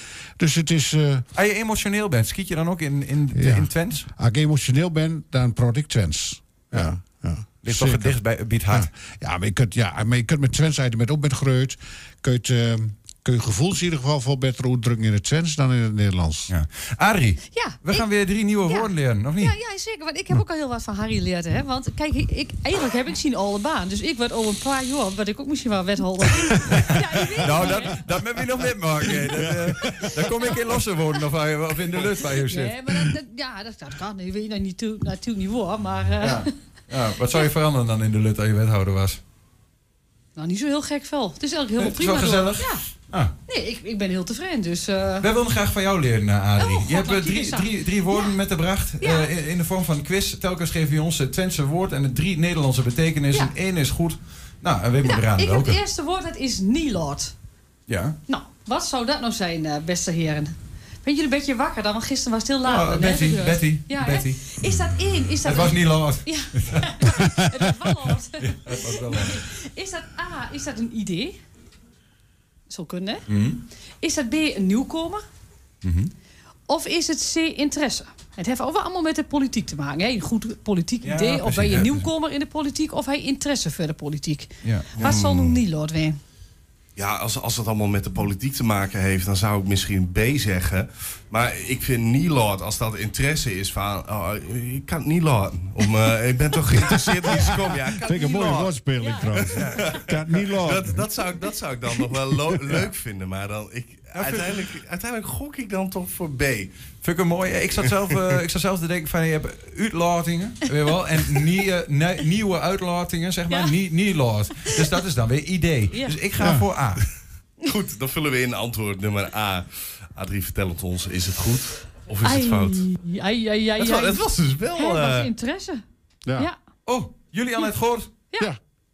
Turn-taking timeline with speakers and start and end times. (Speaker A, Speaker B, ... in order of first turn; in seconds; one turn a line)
Speaker A: 0.4-1.2
Speaker B: 1.3-4.1
Speaker A: 3.3-8.2
Speaker B: 7.6-8.9
Speaker A: 8.7-16.5
Speaker B: 16.5-19.5
Speaker C: 17.5-18.1
Speaker C: 18.7-28.1
Speaker B: 26.7-32.8
Speaker A: 28.9-30.3
Speaker C: 32.5-36.5
Speaker B: 36.2-39.2
Speaker C: 40.4-42.8
Speaker B: 41.8-43.3
Speaker C: 43.5-45.2
Speaker B: 45.2-55.8
Speaker C: 46.6-48.3
Speaker C: 49.0-49.3
Speaker C: 55.0-57.3
Speaker B: 57.9-58.1
Speaker C: 58.3-71.4
Speaker B: 62.6-64.4
Speaker B: 65.4-67.2
Speaker B: 68.4-69.4
Speaker C: 72.7-73.2
Speaker B: 73.3-73.6
Speaker C: 74.0-75.2
Speaker B: 75.8-76.1
Speaker C: 76.7-86.2
Speaker B: 81.0-82.1
Speaker B: 84.6-85.4
Speaker D: 85.0-85.5
Speaker D: 87.0-98.8
Speaker A: 96.9-101.0
Speaker C: 98.9-99.9
Speaker D: 99.6-106.7
Speaker B: 104.2-104.5
Speaker B: 107.0-117.0
Speaker C: 115.9-116.2
Speaker A: 116.3-116.7
Speaker D: 117.6-122.8
Speaker C: 122.2-125.8
Speaker D: 123.8-125.3
Speaker B: 126.8-128.2